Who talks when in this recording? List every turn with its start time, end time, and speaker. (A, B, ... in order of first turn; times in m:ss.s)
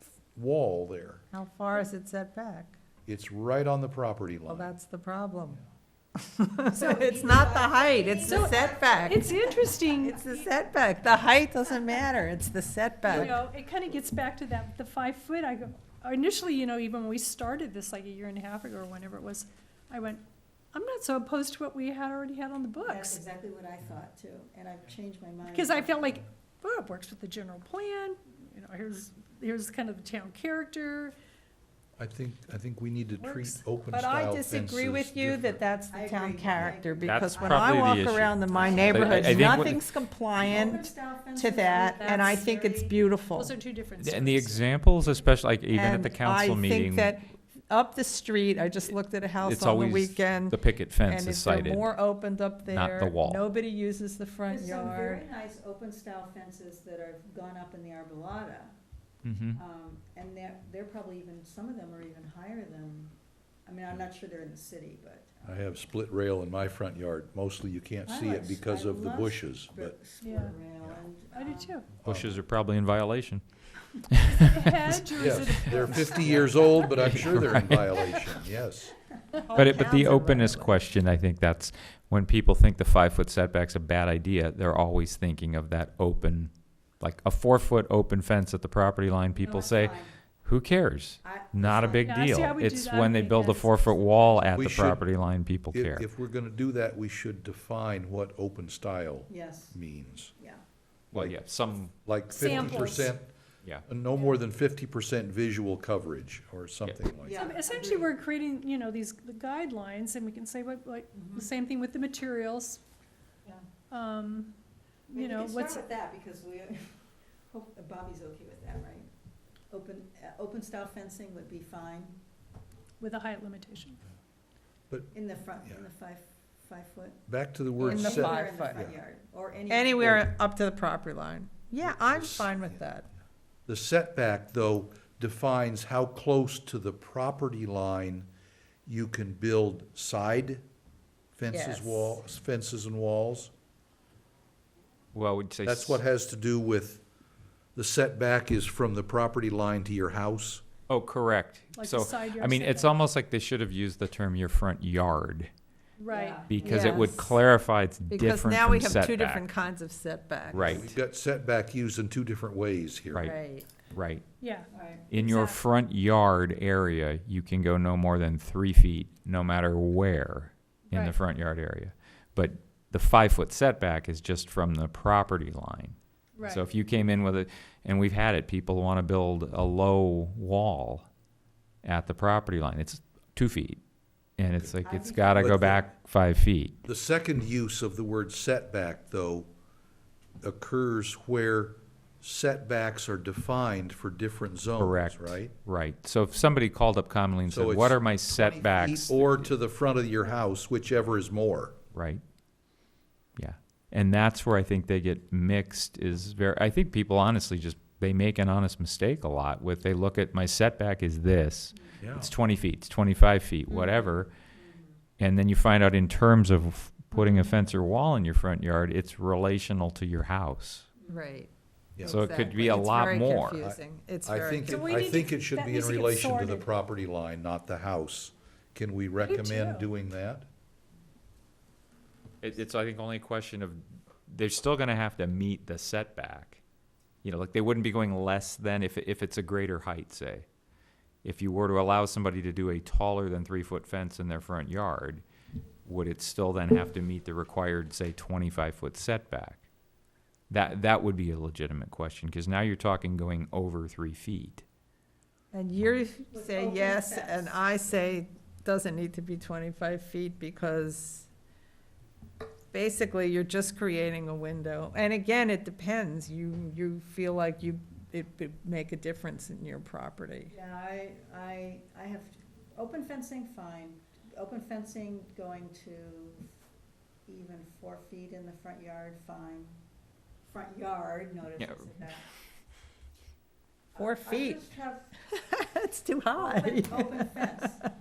0:00.3-0:01.2 A
0:01.3-0:02.8 B
0:03.0-0:04.7 A
0:04.5-0:05.6 B
0:06.2-0:09.2 B
0:06.7-0:07.1 C
0:06.7-0:10.2 D
0:08.2-0:10.4 C
0:10.0-0:13.3 B
0:13.1-0:23.2 C
0:13.1-0:13.4 A
0:22.8-0:26.2 D
0:25.5-0:31.1 C
0:32.0-0:35.6 A
0:33.2-0:33.6 C
0:33.9-0:43.5 B
0:35.9-0:39.8 D
0:37.0-0:39.8 E
0:38.6-0:39.0 C
0:40.4-0:42.9 D
0:41.9-0:45.3 C
0:44.0-0:47.2 E
0:45.7-0:55.2 B
0:49.4-0:51.9 E
0:52.7-0:53.4 E
0:54.5-0:58.8 D
0:59.2-0:59.6 E
0:59.5-1:03.1 D
1:03.6-1:05.7 D
1:05.4-1:10.0 A
1:08.0-1:11.8 D
1:10.2-1:10.6 C
1:11.3-1:11.9 C
1:12.0-1:13.4 E
1:12.0-1:12.4 A
1:14.1-1:14.9 E
1:14.3-1:16.9 C
1:15.2-1:19.0 A
1:15.5-1:15.8 E
1:15.7-1:17.4 D
1:17.0-1:18.3 E
1:19.5-1:20.8 B
1:19.5-1:36.0 E
1:29.3-1:30.1 D
1:31.2-1:32.5 D
1:32.0-1:34.5 C
1:34.5-1:35.0 A
1:35.7-1:40.3 A
1:39.3-1:39.8 D
1:40.4-1:40.6 D
1:41.1-1:42.0 E
1:41.1-1:41.4 A
1:42.0-1:43.3 A
1:42.3-1:43.2 C
1:43.9-1:47.4 A
1:47.2-1:48.2 D
1:47.3-1:52.8 C
1:51.1-1:51.5 D
1:53.9-1:54.5 C
1:55.1-1:55.9 C
1:55.1-1:59.1 D
1:59.7-2:02.2 D
2:03.0-2:04.0 C
2:04.9-2:05.8 A
2:05.1-2:07.2 D
2:07.3-2:08.9 A
2:07.8-2:08.9 B
2:07.8-2:10.2 D
2:09.7-2:13.1 B
2:10.0-2:10.2 A
2:11.8-2:12.8 A
2:13.7-2:18.3 A
2:18.8-2:20.6 A
2:21.3-2:23.5 A
2:21.5-2:22.2 B
2:25.1-2:26.0 E
2:25.6-2:27.0 A
2:27.7-2:30.6 A
2:30.9-2:35.5 E
2:31.7-2:33.0 C
2:36.0-2:36.6 C
2:36.1-2:37.1 D
2:36.4-2:39.5 E
2:36.6-2:37.4 B
2:38.1-2:40.9 B
2:40.5-2:43.3 A
2:40.5-2:40.9 E
2:43.2-2:43.7 B
2:43.9-2:44.2 E
2:44.4-2:45.6 C
2:44.7-2:45.1 D
2:45.1-3:01.1 E
2:56.4-2:56.7 C
3:01.8-3:03.8 E
3:04.4-3:06.8 E
3:04.8-3:05.8 D
3:05.4-3:05.9 A
3:06.8-3:09.5 A
3:10.4-3:15.5 A
3:14.8-3:19.6 E
3:17.5-3:21.8 A
3:21.9-3:22.2 E
3:23.4-3:34.3 E
3:32.0-3:32.3 A
3:33.8-3:35.0 D
3:35.2-3:40.9 E
3:41.1-3:44.8 B
3:42.0-3:42.2 A
3:42.0-3:43.6 E
3:43.6-3:50.5 A
3:44.6-3:46.7 C
3:49.2-3:49.9 C
3:52.4-3:56.6 E
3:57.2-4:00.4 E
4:01.2-4:05.2 E
4:05.8-4:09.6 E
4:10.5-4:14.6 E
4:15.5-4:21.3 B
4:16.3-4:17.6 D
4:22.7-4:30.5 B
4:30.5-4:36.5 D
4:37.3-4:39.8 D
4:40.4-4:42.2 D
4:41.6-4:42.0 E
4:43.9-4:45.1 D
4:44.0-4:44.6 B
4:45.3-4:47.9 B
4:46.4-4:47.8 D